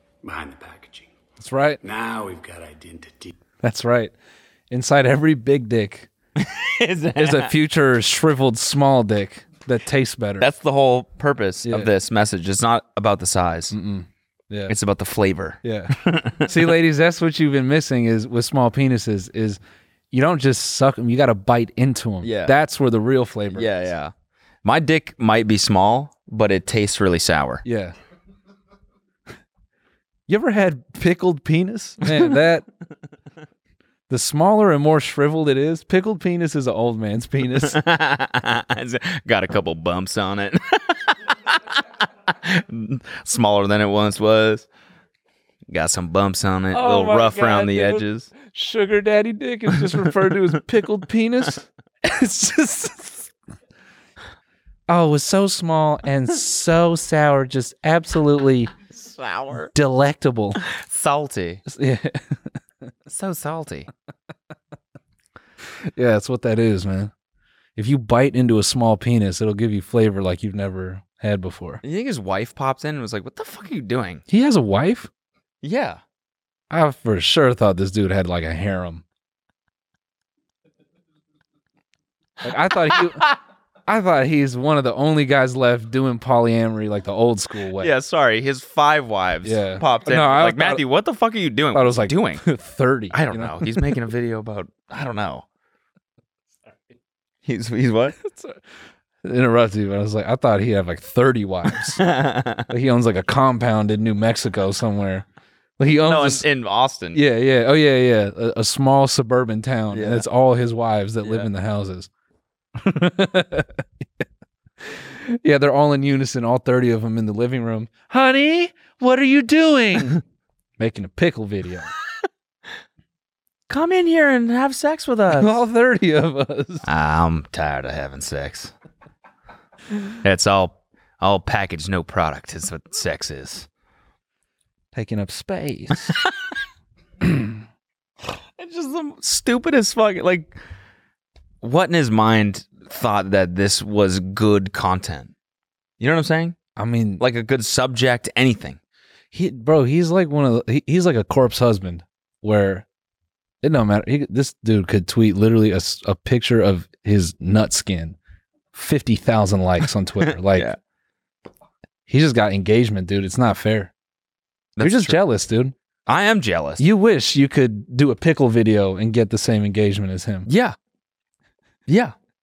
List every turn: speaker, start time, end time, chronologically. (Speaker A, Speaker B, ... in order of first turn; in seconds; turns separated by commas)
Speaker A: 0.2-1.1, Speaker B: 1.4-1.8, Speaker A: 1.8-3.4, Speaker B: 3.6-4.1, Speaker B: 4.7-6.1, Speaker C: 6.4-7.5, Speaker B: 7.2-10.5, Speaker C: 10.4-13.7, Speaker B: 11.6-11.9, Speaker B: 13.7-14.7, Speaker C: 14.7-16.5, Speaker B: 15.6-15.9, Speaker B: 16.4-19.6, Speaker B: 20.1-23.9, Speaker C: 22.2-22.5, Speaker C: 23.5-24.1, Speaker C: 24.6-27.6, Speaker B: 27.6-27.9, Speaker B: 30.3-32.6, Speaker B: 34.1-37.8, Speaker C: 37.6-44.7, Speaker C: 45.7-48.3, Speaker B: 46.7-53.3, Speaker C: 49.8-50.1, Speaker B: 54.9-58.7, Speaker C: 58.9-59.7, Speaker B: 59.7-60.6, Speaker C: 60.6-61.6, Speaker B: 61.6-62.4, Speaker C: 63.1-63.9, Speaker B: 65.8-67.1, Speaker B: 67.8-71.8, Speaker C: 71.8-74.2, Speaker B: 74.3-75.1, Speaker C: 75.6-76.0, Speaker B: 76.7-79.0, Speaker B: 82.4-83.2, Speaker C: 82.9-83.3, Speaker B: 83.9-87.9, Speaker C: 87.8-92.4, Speaker B: 89.4-90.8, Speaker B: 91.7-93.7, Speaker C: 93.1-95.4, Speaker C: 97.4-98.2, Speaker B: 98.1-98.6, Speaker B: 99.2-102.0, Speaker C: 101.9-102.7, Speaker B: 102.7-105.2, Speaker B: 105.8-106.5, Speaker C: 106.0-107.2, Speaker B: 107.1-112.1, Speaker C: 109.9-110.2, Speaker C: 111.2-111.5, Speaker B: 112.8-114.2, Speaker B: 114.8-120.2, Speaker B: 120.8-121.9, Speaker C: 123.7-125.6, Speaker B: 125.3-126.8, Speaker C: 126.8-128.7, Speaker C: 130.2-133.7, Speaker B: 134.9-136.1, Speaker B: 137.2-137.6, Speaker C: 138.6-140.6, Speaker C: 141.6-145.3, Speaker C: 146.0-146.6, Speaker B: 146.8-147.2, Speaker C: 147.2-148.8, Speaker B: 149.3-152.8, Speaker B: 153.6-158.2, Speaker B: 158.7-160.7, Speaker C: 160.2-160.8, Speaker B: 162.1-163.9, Speaker C: 164.8-165.2, Speaker B: 164.8-165.7, Speaker C: 166.1-166.8, Speaker B: 166.8-170.5, Speaker C: 170.5-170.8, Speaker C: 171.9-172.1